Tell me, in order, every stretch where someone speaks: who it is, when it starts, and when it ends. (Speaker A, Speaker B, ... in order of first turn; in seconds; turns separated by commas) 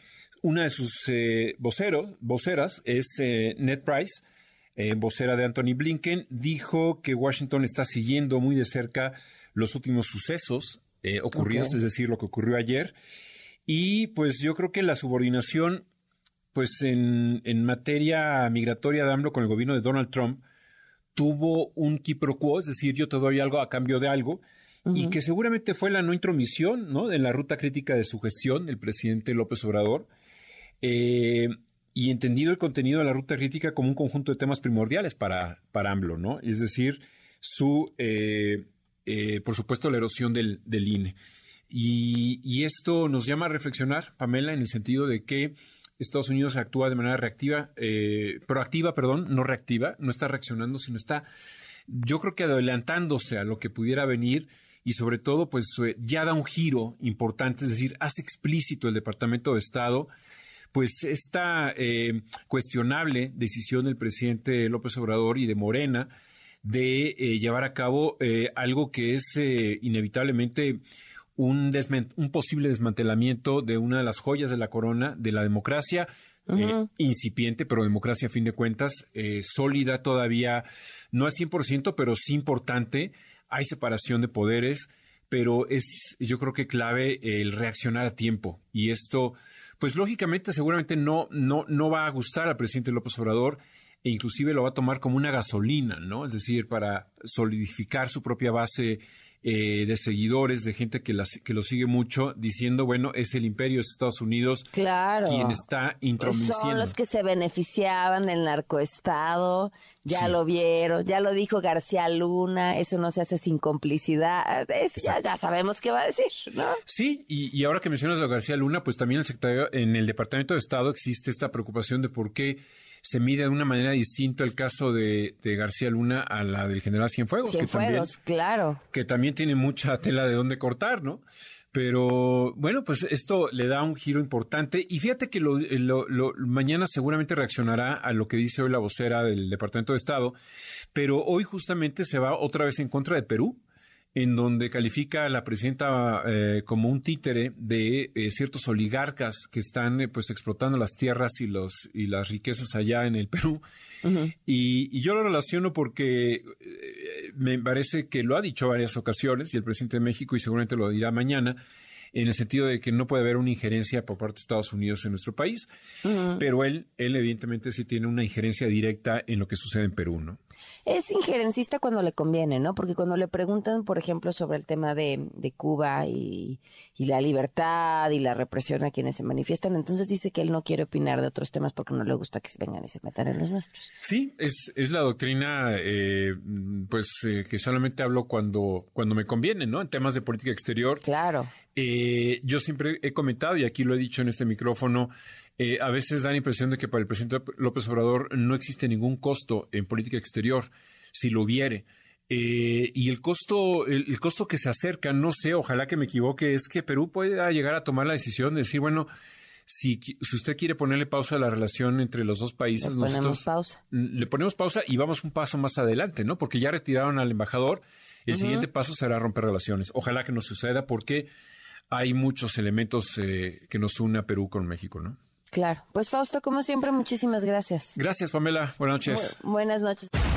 Speaker A: 0.4-4.2, Speaker A: 4.8-12.9, Speaker B: 11.3-11.7, Speaker A: 13.7-15.9, Speaker A: 16.5-20.4, Speaker A: 21.1-30.1, Speaker B: 24.9-25.1, Speaker A: 30.8-41.1, Speaker A: 41.7-51.3, Speaker A: 51.9-60.1, Speaker A: 60.7-66.1, Speaker A: 66.6-70.8, Speaker A: 71.3-104.7, Speaker B: 76.5-76.8, Speaker B: 104.7-105.6, Speaker A: 105.2-107.0, Speaker B: 106.2-116.8, Speaker A: 110.1-110.3, Speaker A: 116.8-128.1, Speaker B: 127.4-128.8, Speaker A: 128.9-140.3, Speaker A: 140.9-143.6, Speaker A: 144.1-153.6, Speaker B: 154.0-154.3, Speaker A: 154.4-161.6, Speaker A: 162.1-165.7, Speaker B: 166.0-166.4, Speaker A: 166.4-170.4, Speaker B: 170.8-183.9, Speaker A: 184.0-191.0, Speaker B: 191.0-191.5, Speaker A: 191.7-209.1, Speaker A: 209.7-221.3, Speaker B: 212.8-213.8, Speaker B: 218.3-218.7, Speaker A: 221.9-225.2, Speaker B: 225.5-228.0, Speaker A: 227.9-229.3, Speaker B: 229.1-230.1